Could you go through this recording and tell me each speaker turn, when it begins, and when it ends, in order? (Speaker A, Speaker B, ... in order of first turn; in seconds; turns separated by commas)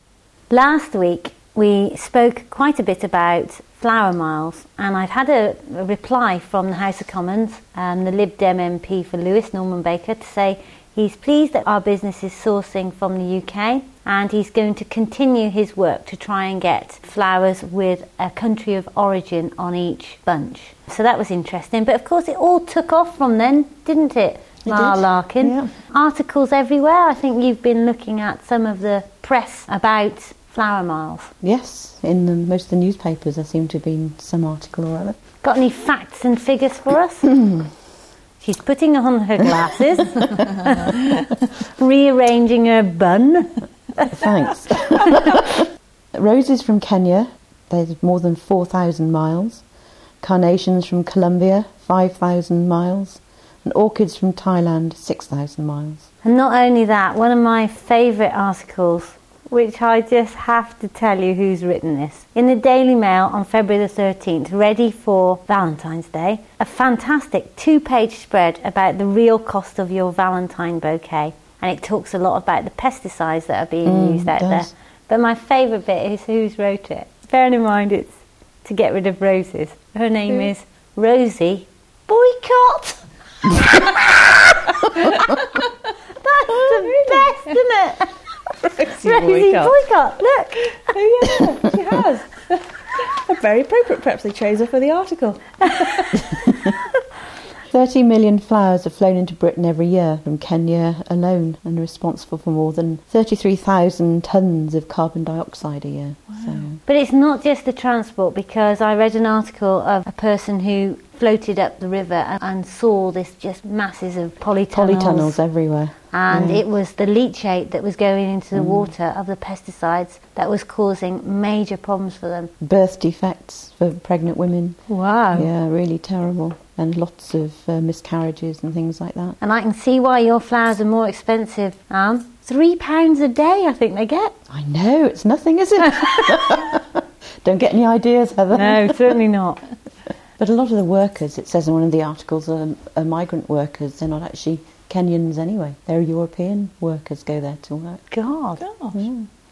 Speaker A: 0.5-31.3, Speaker B: 24.6-25.7, Speaker B: 31.4-35.2, Speaker A: 35.4-37.3, Speaker B: 37.4-37.7, Speaker A: 38.4-44.1, Speaker B: 39.6-40.4, Speaker B: 44.1-49.6, Speaker B: 50.2-56.1, Speaker A: 56.2-83.0, Speaker B: 73.8-74.7, Speaker C: 85.2-85.4, Speaker A: 86.2-88.1, Speaker C: 86.5-87.2, Speaker C: 88.8-89.8, Speaker A: 89.0-90.8, Speaker C: 90.9-96.3, Speaker B: 97.7-106.8, Speaker C: 106.3-106.7, Speaker A: 106.8-115.4, Speaker B: 114.7-116.6, Speaker A: 116.1-122.5, Speaker B: 118.5-118.9, Speaker B: 122.6-124.8, Speaker A: 124.9-125.5, Speaker B: 125.3-129.4, Speaker A: 129.4-134.3, Speaker B: 134.5-139.2, Speaker A: 138.5-139.6, Speaker B: 140.4-148.0, Speaker A: 148.1-148.6, Speaker C: 148.6-149.0, Speaker B: 148.9-149.3